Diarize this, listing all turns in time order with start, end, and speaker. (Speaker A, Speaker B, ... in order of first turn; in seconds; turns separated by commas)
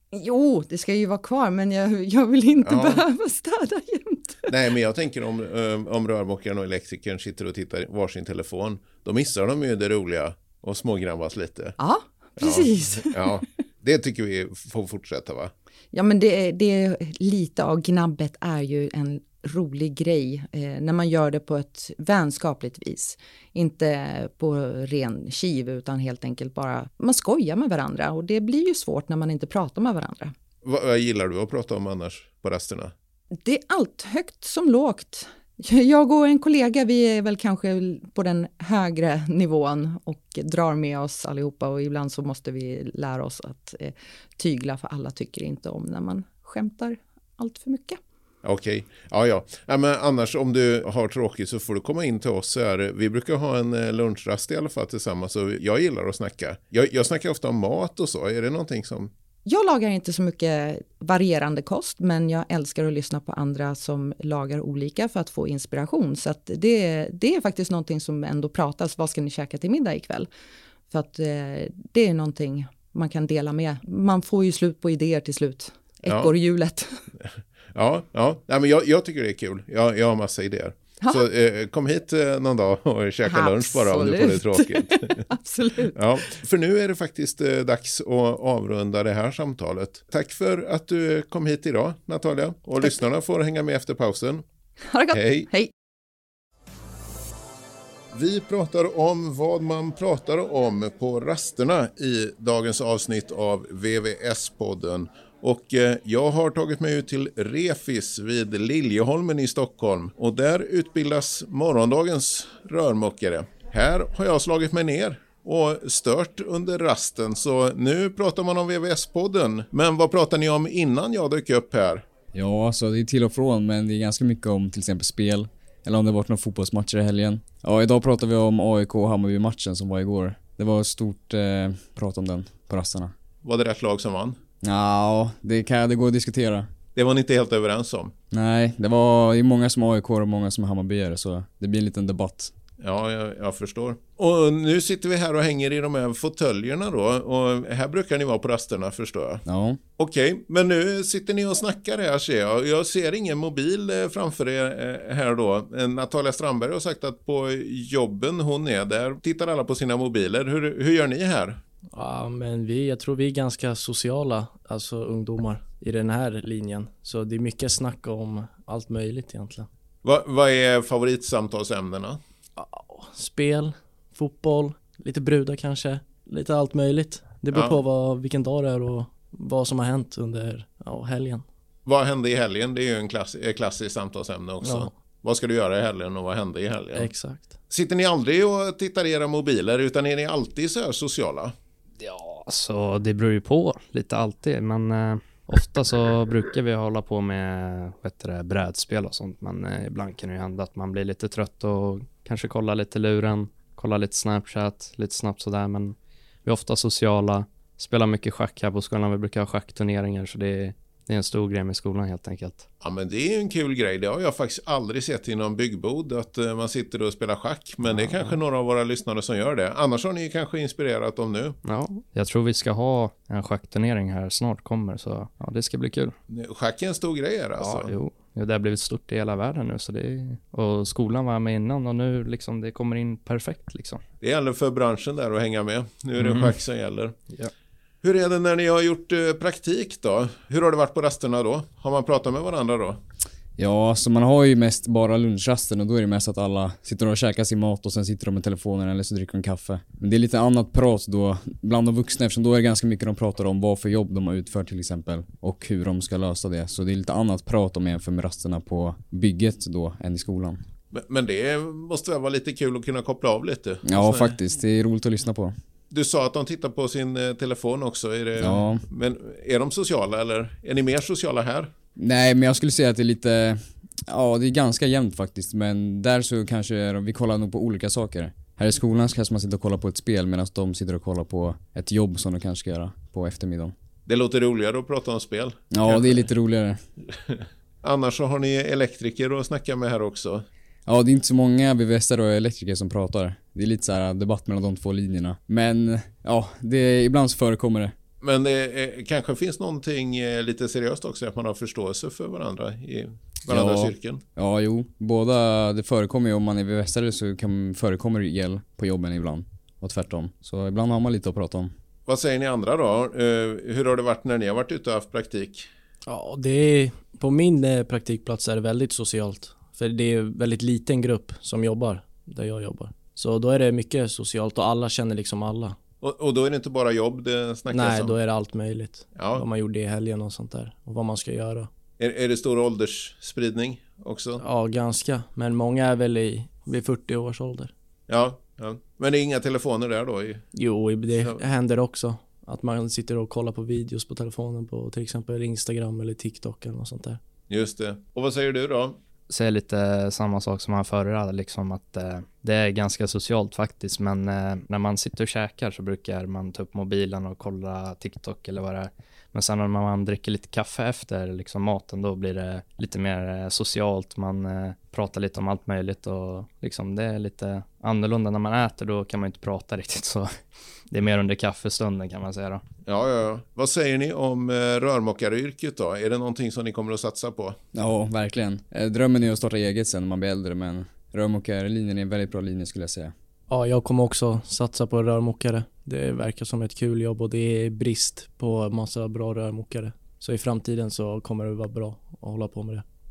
Speaker A: 0.1-4.5, Speaker B: 2.6-3.0, Speaker B: 4.5-11.8, Speaker A: 11.8-13.3, Speaker B: 12.4-15.5, Speaker A: 15.9-30.3, Speaker B: 30.6-32.9, Speaker A: 33.4-48.0, Speaker B: 48.4-59.1, Speaker A: 59.5-70.3, Speaker A: 70.9-77.0, Speaker B: 76.1-76.3, Speaker B: 77.2-85.2, Speaker A: 83.2-86.0, Speaker B: 85.9-94.4, Speaker A: 94.9-95.7, Speaker B: 95.1-95.5, Speaker B: 98.1-122.0, Speaker C: 122.3-133.1, Speaker B: 133.4-134.4, Speaker C: 134.6-136.7, Speaker B: 136.9-138.1, Speaker C: 138.3-142.5, Speaker B: 142.8-149.4, Speaker C: 149.4-149.8, Speaker B: 150.0-161.6, Speaker D: 161.9-169.7, Speaker B: 170.0-172.2, Speaker D: 172.6-181.4, Speaker B: 177.5-177.8, Speaker B: 181.8-187.1, Speaker D: 184.6-184.9, Speaker D: 186.9-187.5, Speaker B: 187.7-191.5, Speaker E: 192.0-212.7, Speaker B: 212.8-221.6, Speaker E: 217.9-218.4, Speaker E: 221.6-226.1, Speaker B: 226.3-227.9, Speaker E: 227.6-234.0, Speaker B: 234.2-237.2, Speaker E: 236.2-236.5, Speaker B: 238.0-243.0, Speaker C: 243.6-260.6, Speaker B: 260.9-264.4, Speaker C: 263.8-265.5, Speaker B: 265.9-271.7, Speaker C: 268.4-268.8, Speaker C: 271.9-283.7, Speaker B: 284.1-286.3, Speaker C: 285.7-286.8, Speaker B: 287.3-290.4, Speaker C: 290.9-297.9, Speaker B: 298.2-304.2, Speaker C: 303.5-311.7, Speaker B: 312.1-315.7, Speaker D: 316.1-325.8, Speaker B: 326.0-328.2, Speaker D: 327.7-331.7, Speaker B: 329.1-329.4, Speaker B: 332.0-334.4, Speaker D: 334.4-337.7, Speaker B: 338.1-340.4, Speaker D: 340.5-347.2, Speaker B: 341.2-341.4, Speaker B: 347.5-349.0, Speaker E: 349.3-370.3, Speaker E: 370.9-372.6, Speaker B: 372.9-377.6, Speaker C: 377.7-383.1, Speaker D: 383.5-392.8